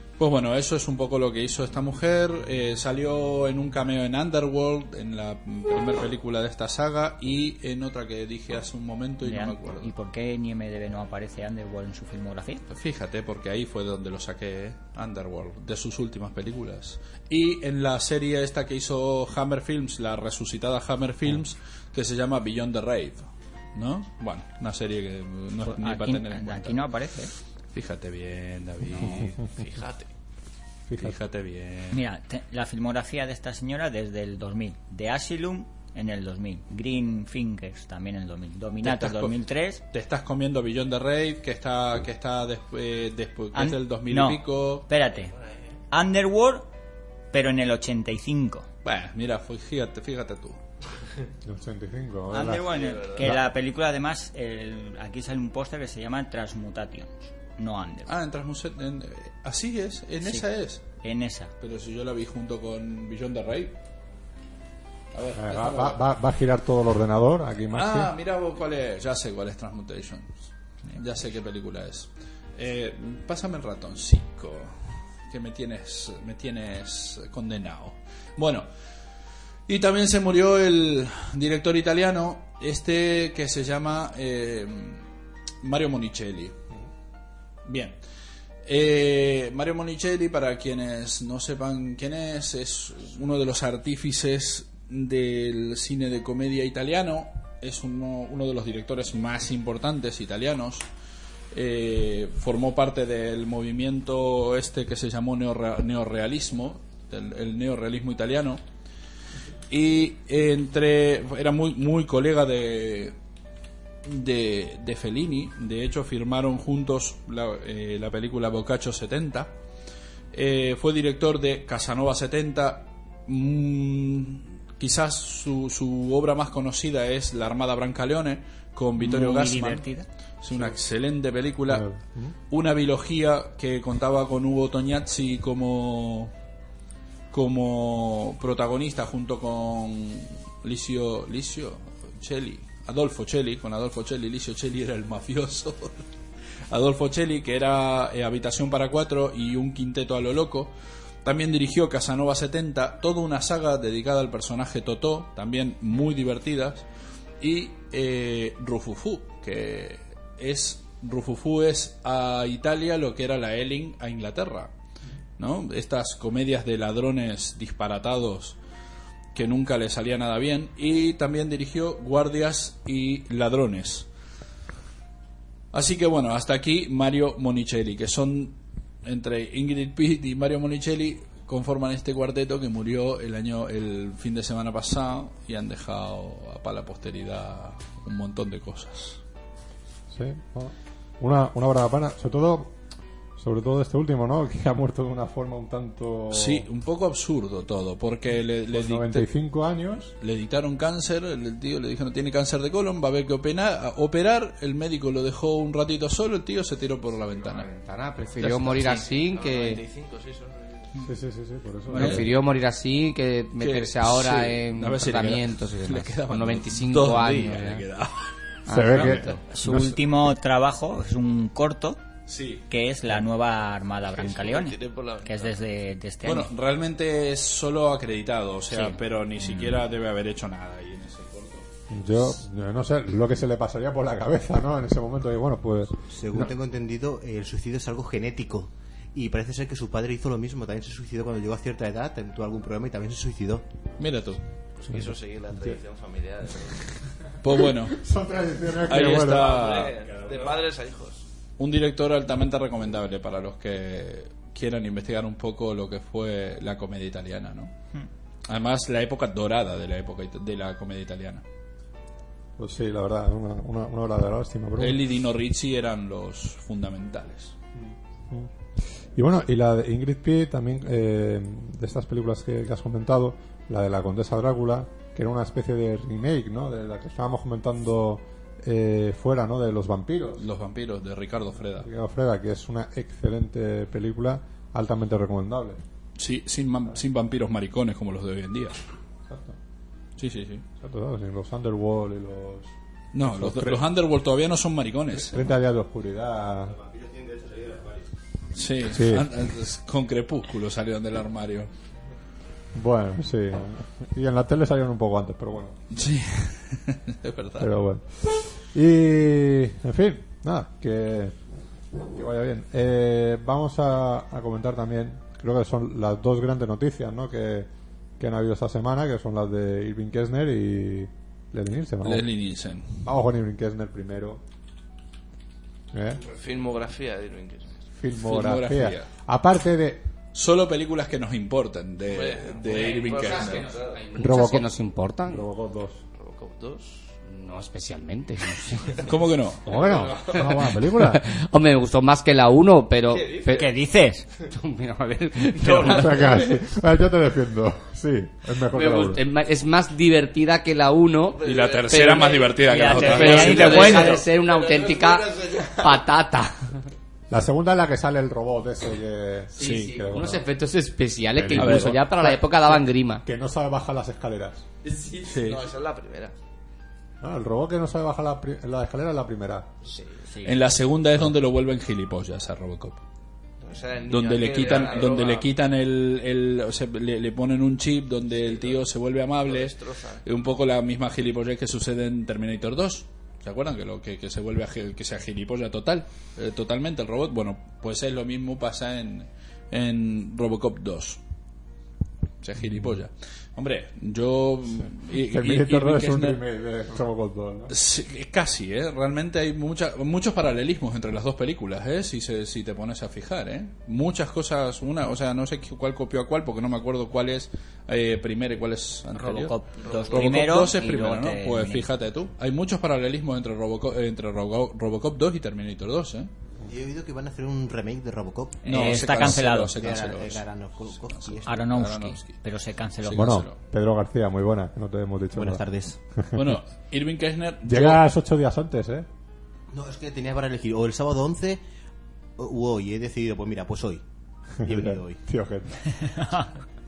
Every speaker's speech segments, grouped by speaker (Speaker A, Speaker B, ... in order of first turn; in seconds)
Speaker A: 0.2-9.9, 12.7-26.8, 27.7-29.4, 31.0-32.0, 38.8-39.3, 39.9-44.9, 48.8-50.6, 58.1-60.8, 61.6-63.8, 65.1-66.0, 67.7-70.4, 70.9-78.7, 79.7-85.0, 85.6-86.5, 87.6-88.0, 88.6-100.8, 101.5-108.6, 109.7-113.2, 114.0-119.5, 120.3-129.8, 130.4-131.9, 132.5-136.3, 137.3-146.0, 146.7-150.7, 151.2-156.8, 157.4-164.7, 165.4-168.6, 169.3-174.1, 175.7-189.2, 196.3-199.3, 200.2-207.7, 208.4-208.9, 211.9-212.2, 213.6-218.3, 222.3-222.7, 226.2-231.7, 244.0-244.4, 247.4-248.0, 248.8-250.0, 251.6-257.7, 258.4-261.4, 264.8-267.5, 280.4-281.9, 286.2-288.8, 290.2-290.6, 293.1-295.5, 298.5-301.7, 305.9-307.7, 322.0-323.1, 328.2-329.1, 330.3-333.8, 339.0-339.7, 351.4-354.2, 359.6-359.9, 361.6-362.0, 365.2-365.7, 370.4-373.0, 374.1-391.2, 392.4-396.4, 397.7-409.6, 410.1-416.3, 418.6-422.4, 423.0-423.6, 426.3-428.0
Speaker B: 9.2-12.6, 25.6-27.3, 31.9-39.8, 43.5-45.3, 45.9-46.7, 47.3-48.7, 52.3-58.1, 61.0-61.5, 129.0-130.1, 219.5-222.0, 222.7-226.5, 228.7-229.0, 343.5-344.3, 352.6-354.2, 370.3-370.6, 409.1-411.9, 418.6-419.8, 421.4-423.4, 435.9-436.5
Speaker C: 29.0-29.3, 30.9-31.1, 51.4-52.6, 65.3-68.1, 131.7-132.3, 190.1-192.7, 193.4-196.7, 198.7-200.1, 211.0-212.3, 218.7-220.0, 231.9-236.0, 247.6-249.6, 262.6-265.0, 267.7-268.5, 269.1-280.4, 281.8-285.8, 289.3-289.6, 290.8-292.7, 293.2-293.8, 295.2-296.8, 298.9-299.3, 302.7-305.8, 307.6-311.4, 312.0-322.3, 323.0-324.4, 325.9-326.2, 327.9-330.0, 334.2-334.7, 335.2-336.0, 339.6-341.2, 345.6-349.2, 357.3-360.4, 361.3-364.6, 367.2-369.7, 395.1-397.7, 423.1-425.6, 426.1-426.6, 427.6-429.1, 434.6-435.8
Speaker D: 29.5-30.1, 45.2-45.6, 52.5-53.3, 208.9-210.9, 224.1-225.5, 244.8-246.9, 249.1-251.2, 326.2-327.8, 332.1-334.1, 336.1-337.1, 339.6-340.6, 343.1-343.7, 345.6-346.5, 351.3-356.1, 365.1-366.4, 369.8-370.1, 373.6-375.5, 378.5-378.8, 379.4-380.2, 409.8-410.3
Speaker E: 207.3-209.8, 211.9-217.8, 218.7-219.4, 332.6-335.4, 337.3-339.1, 340.2-343.7, 344.5-346.5, 348.7-356.8, 359.6-363.2
Speaker F: 236.1-243.6, 296.8-298.0, 416.7-421.6, 425.3-426.0, 429.7-431.6, 432.4-434.0, 434.6-435.2